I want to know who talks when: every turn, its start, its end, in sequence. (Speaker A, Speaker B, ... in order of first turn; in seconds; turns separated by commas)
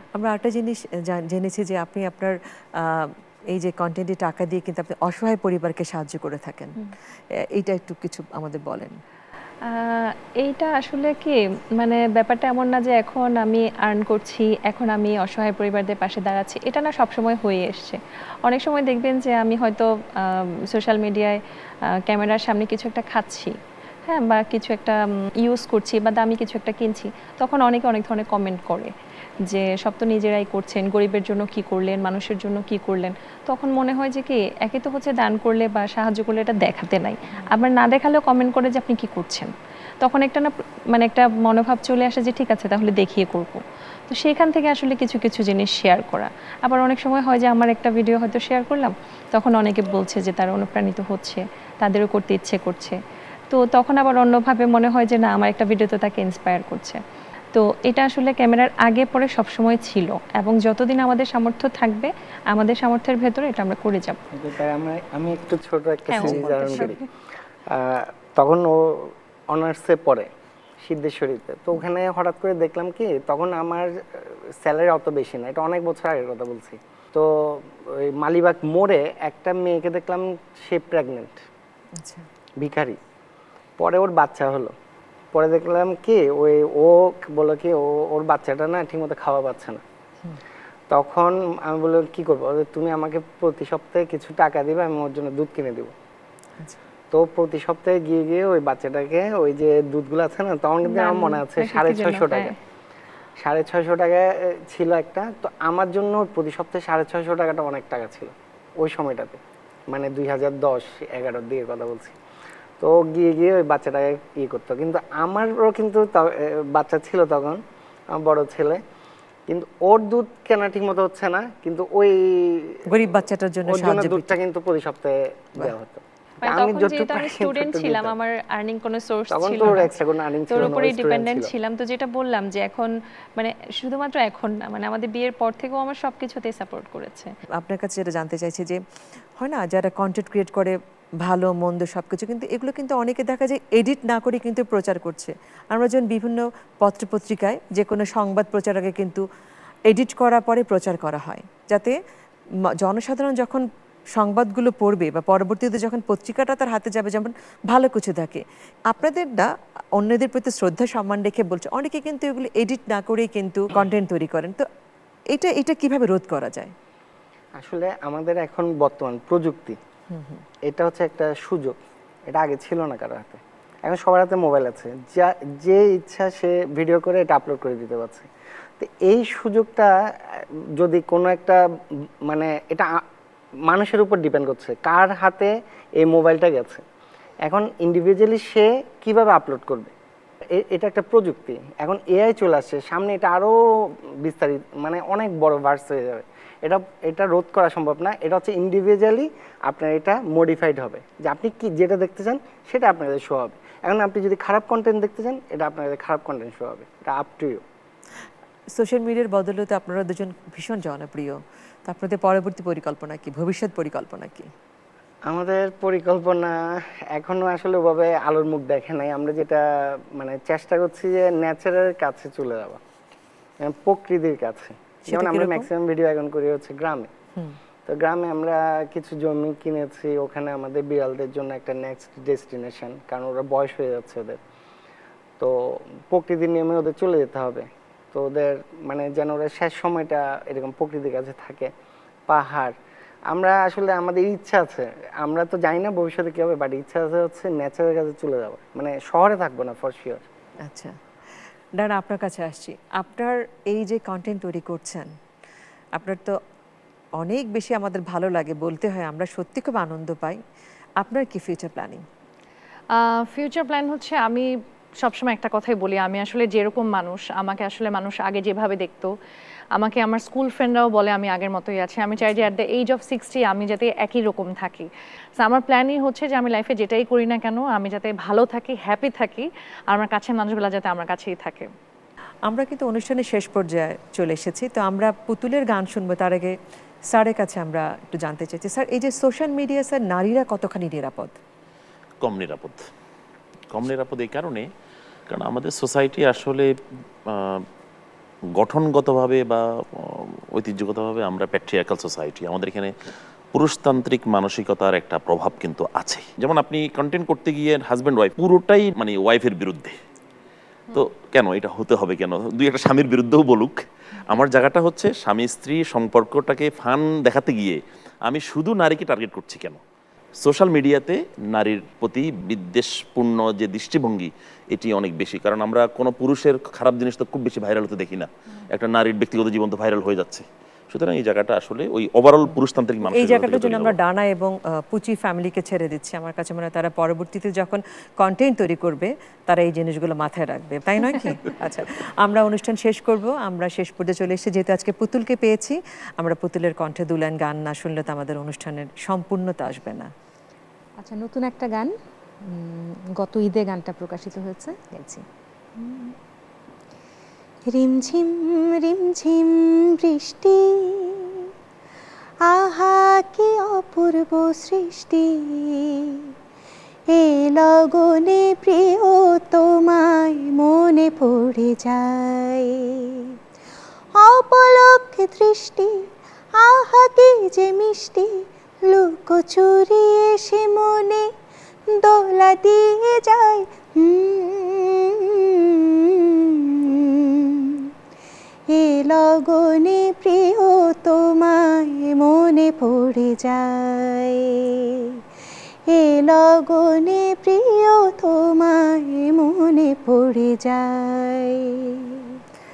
Speaker A: 0.1-6.8, Speaker A: 7.4-8.9, Speaker B: 9.7-21.4, Speaker B: 22.1-28.9, Speaker B: 29.5-53.0, Speaker B: 53.5-57.0, Speaker B: 57.5-64.2, Speaker C: 64.3-67.0, Speaker B: 66.1-67.0, Speaker C: 67.7-70.3, Speaker C: 70.8-81.5, Speaker A: 82.0-82.3, Speaker C: 82.6-83.0, Speaker C: 83.8-84.8, Speaker C: 85.3-89.8, Speaker C: 90.9-95.9, Speaker C: 97.1-102.5, Speaker B: 100.8-102.5, Speaker C: 103.4-112.2, Speaker C: 112.8-118.8, Speaker C: 119.5-122.8, Speaker A: 122.9-124.4, Speaker C: 123.7-128.1, Speaker B: 126.4-130.0, Speaker C: 129.3-131.5, Speaker B: 130.5-137.3, Speaker A: 137.6-138.8, Speaker A: 139.4-149.2, Speaker A: 149.9-152.0, Speaker A: 152.8-164.7, Speaker A: 165.3-166.8, Speaker C: 167.6-169.8, Speaker A: 170.1-170.4, Speaker C: 170.7-181.6, Speaker C: 182.2-183.0, Speaker C: 183.7-186.8, Speaker C: 187.4-189.9, Speaker C: 190.5-207.6, Speaker A: 208.8-214.5, Speaker C: 215.3-222.8, Speaker C: 223.6-227.1, Speaker A: 225.1-225.7, Speaker C: 227.9-234.4, Speaker C: 235.4-241.7, Speaker C: 242.3-242.8, Speaker C: 243.3-250.2, Speaker A: 250.6-251.0, Speaker A: 251.8-255.1, Speaker A: 255.9-256.4, Speaker A: 257.2-260.4, Speaker A: 261.0-262.0, Speaker D: 262.9-269.1, Speaker D: 269.8-281.7, Speaker A: 282.5-286.6, Speaker A: 287.1-291.4, Speaker E: 292.2-292.9, Speaker E: 293.7-294.7, Speaker E: 295.3-296.7, Speaker E: 297.3-297.7, Speaker E: 298.6-302.9, Speaker E: 303.5-310.0, Speaker E: 310.9-319.8, Speaker E: 320.4-334.0, Speaker A: 333.0-350.1, Speaker F: 351.0-355.3, Speaker F: 355.8-356.1, Speaker F: 357.7-361.5, Speaker F: 362.4-366.3, Speaker F: 367.1-373.4, Speaker F: 374.2-381.3, Speaker F: 381.9-387.9, Speaker F: 388.7-395.2, Speaker F: 395.9-402.4